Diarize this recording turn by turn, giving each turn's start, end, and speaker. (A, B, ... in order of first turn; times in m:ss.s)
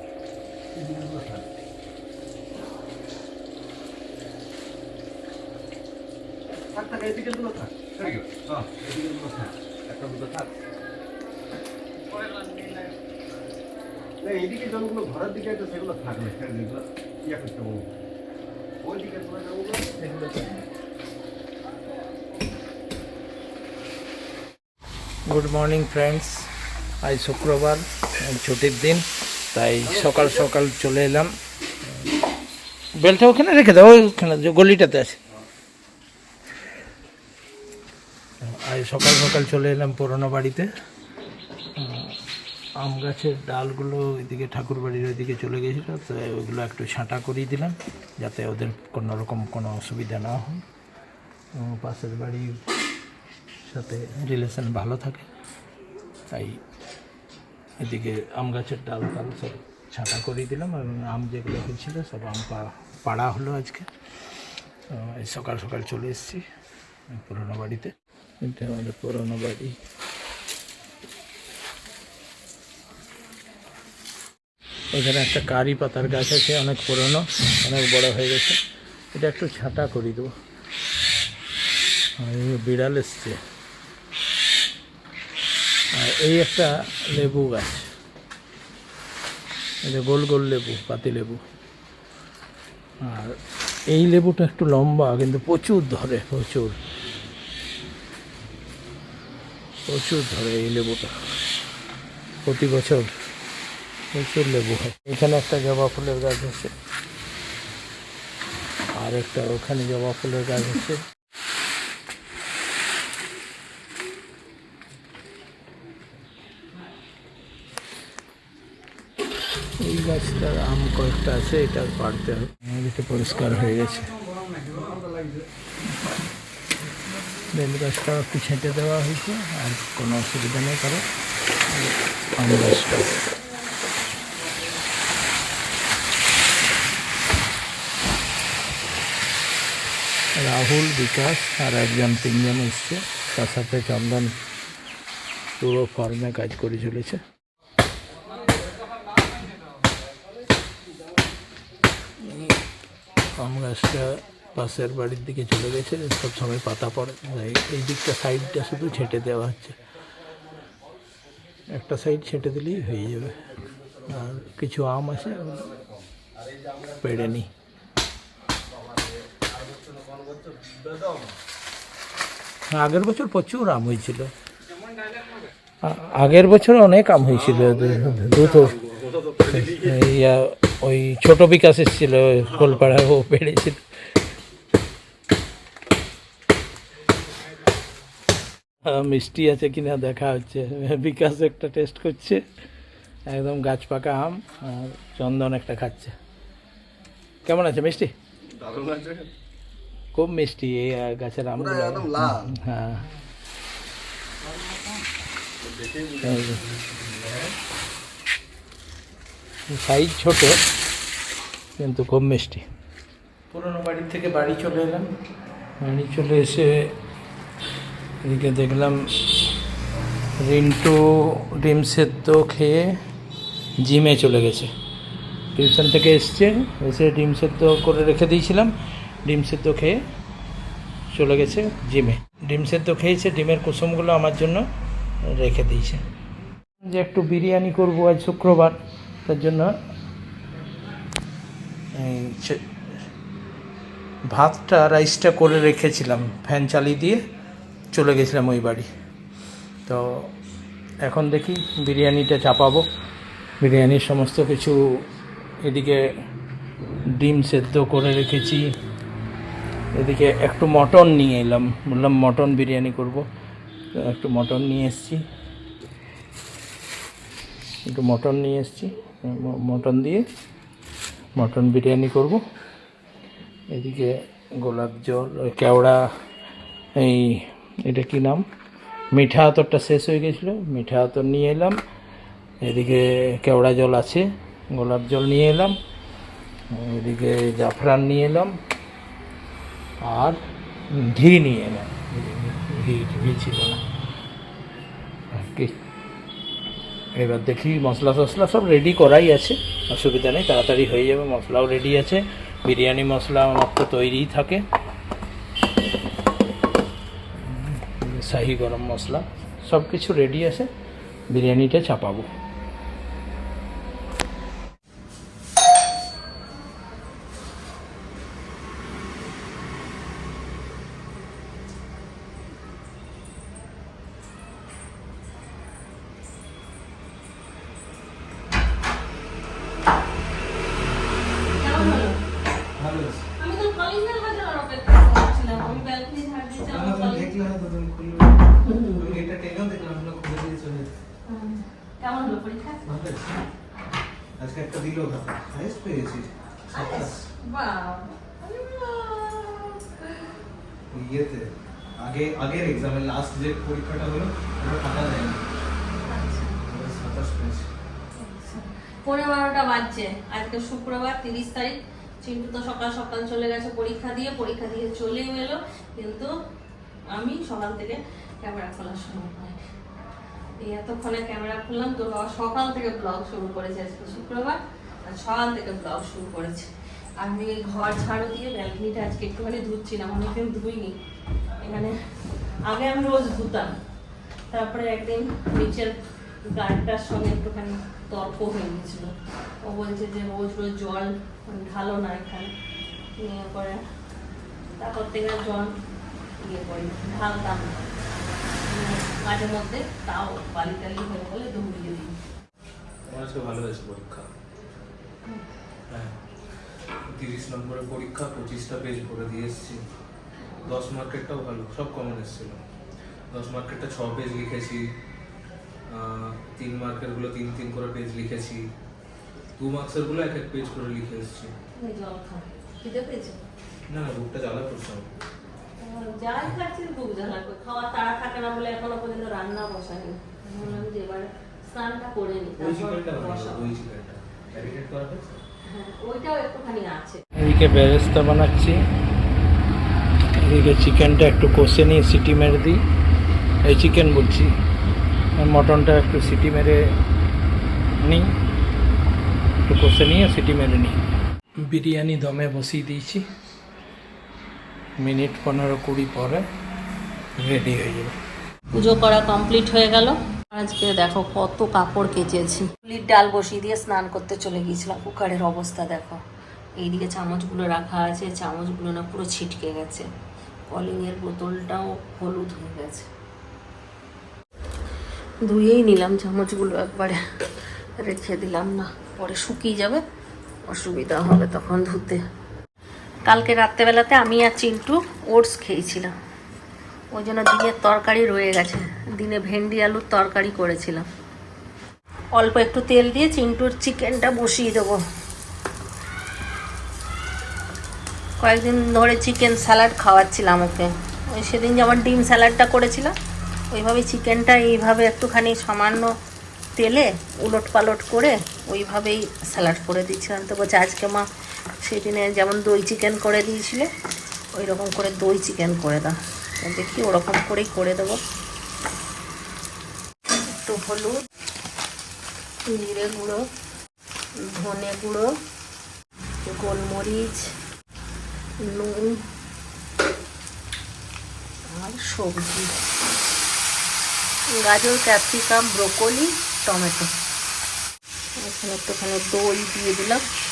0:00.8-0:01.5 A
0:06.7-0:10.5 A
0:12.1-0:12.9 A
0:14.2-0:18.0 A
0:18.8-0:20.0 A
0:20.0-0:20.6 B
0:25.3-0:26.5 B
0:27.0-0:31.3 B
0:33.0-0:35.2 B
0:38.4-0:40.7 B
0:41.8-0:42.2 B
0:42.8-0:50.6 B
0:51.6-0:52.6 B
0:53.7-0:55.2 B
0:56.3-0:56.6 B
0:57.8-1:03.9 B
1:04.9-1:06.4 B
1:07.1-1:09.8 B
1:14.9-1:18.6 B
1:19.1-1:20.3 B
1:22.2-1:23.4 B
1:25.9-1:27.9 B
1:29.8-1:31.4 B
1:33.0-1:33.4 B
1:33.9-1:36.8 B
1:39.8-1:41.1 B
1:42.4-1:43.2 B
1:44.1-1:46.7 B
1:49.0-1:51.0 B
1:59.8-2:04.1 B
2:04.4-2:05.5 A
2:07.5-2:11.0 B
2:12.4-2:13.2 B
2:20.4-2:24.3 B
2:25.6-2:27.2 B
2:32.2-2:32.6 B
2:33.4-2:39.8 B
2:41.7-2:43.5 B
2:44.0-2:45.8 B
2:46.8-2:47.5 B
2:49.3-2:51.3 A
2:52.7-2:54.3 B
2:55.8-2:58.8 B
2:59.0-2:59.5 A
2:59.4-3:03.8 B
3:08.9-3:12.4 B
3:13.3-3:16.1 B
3:17.5-3:18.1 B
3:18.6-3:19.3 A
3:20.1-3:23.0 B
3:25.6-3:27.5 A
3:26.2-3:26.6 B
3:29.7-3:30.6 B
3:31.8-3:32.6 B
3:33.5-3:35.1 B
3:35.8-3:37.0 B
3:38.2-3:39.0 B
3:40.4-3:43.0 B
3:43.8-3:44.7 B
3:45.6-3:48.7 B
3:49.2-3:50.0 B
3:51.1-3:54.6 B
3:55.3-3:56.0 B
3:56.8-3:59.7 B
4:02.0-4:02.6 B
4:04.3-4:07.2 B
4:07.9-4:08.9 B
4:09.8-4:10.3 B
4:11.0-4:12.8 B
4:13.6-4:14.8 B
4:15.6-4:16.0 B
4:17.2-4:18.6 B
4:20.0-4:23.2 B
4:24.0-4:25.2 B
4:27.9-4:30.2 B
4:31.4-4:32.4 B
4:33.7-4:36.1 B
4:37.0-4:38.4 B
4:39.1-4:41.8 B
4:42.6-4:45.8 B
4:46.7-4:48.5 B
4:50.0-4:50.4 B
4:50.9-4:53.8 B
4:55.3-4:55.7 B
4:57.1-5:04.6 B
5:07.4-5:10.7 B
5:11.3-5:12.3 B
5:31.5-5:32.2 C
5:32.8-5:33.2 D
5:33.4-5:37.4 C
5:36.7-5:40.9 D
5:38.6-5:39.2 C
5:41.2-5:42.8 C
5:42.8-5:43.3 D
5:44.4-5:47.1 D
5:46.7-5:50.2 C
5:50.9-5:51.5 D
5:52.0-5:55.4 D
5:56.0-5:56.6 C
5:56.7-5:57.7 D
5:58.2-6:06.3 C
6:07.1-6:09.6 C
6:10.6-6:20.9 C
6:21.6-6:22.0 C
6:22.6-6:23.8 C
6:24.5-6:25.9 C
6:26.4-6:32.5 C
6:33.2-6:33.8 C
6:34.8-6:35.7 C
6:36.4-6:37.9 C
6:38.7-6:42.2 C
6:43.1-6:44.3 D
6:47.1-6:49.8 D
6:50.6-6:52.6 D
6:53.3-6:54.9 D
6:55.9-6:58.6 D
6:59.6-7:01.5 D
7:01.8-7:03.4 C
7:03.9-7:05.1 D
7:05.8-7:13.7 C
7:12.6-7:15.4 D
7:15.7-7:17.2 C
7:17.4-7:18.8 B
7:20.4-7:22.8 B
7:23.6-7:24.5 B
7:25.4-7:26.8 B
7:28.0-7:28.3 B
7:29.6-7:31.0 B
7:31.6-7:33.2 B
7:35.0-7:36.4 B
7:37.4-7:38.1 B
7:38.7-7:46.2 C
7:46.8-7:50.1 C
7:50.7-7:53.1 C
7:55.4-7:57.2 C
7:58.0-8:00.0 C
8:00.7-8:02.2 C
8:03.2-8:06.1 C
8:07.1-8:11.1 C
8:12.3-8:15.0 C
8:18.4-8:23.1 C
8:23.7-8:26.1 C
8:26.8-8:31.2 C
8:31.8-8:33.9 C
8:34.6-8:38.2 C
8:40.5-8:41.1 C
8:42.7-8:43.4 C
8:44.4-8:45.3 C
8:46.4-8:47.4 C
8:48.6-8:49.2 C
8:51.7-8:52.7 C
8:54.6-8:57.1 C
8:58.4-9:00.2 C